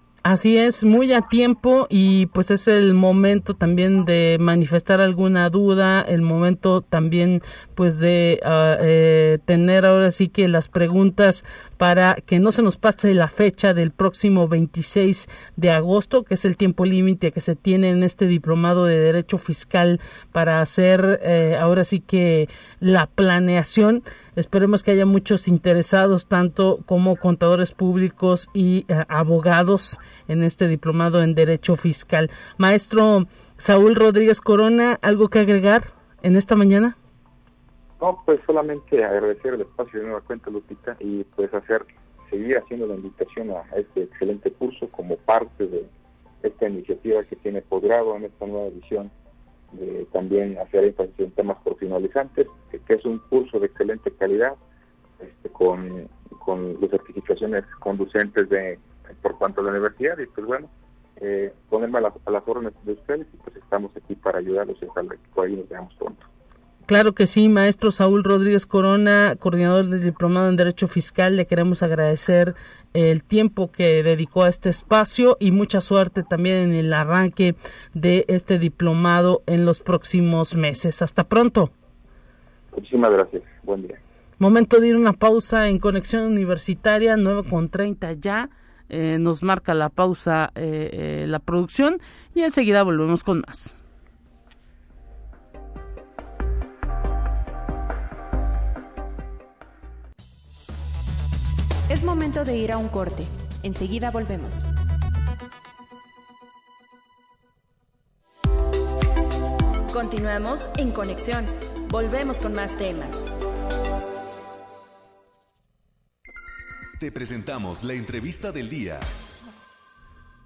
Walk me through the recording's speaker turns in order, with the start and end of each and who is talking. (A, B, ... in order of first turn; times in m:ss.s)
0:00.2-0:36.9 A
0:38.0-0:45.9 B
0:46.4-0:49.1 B
0:49.7-0:54.6 B
0:55.2-1:06.2 B
1:06.9-1:21.7 A
1:22.7-1:24.0 B
1:24.4-1:33.8 A
1:41.9-1:44.7 C
1:49.9-1:53.2 C
1:57.0-1:59.0 D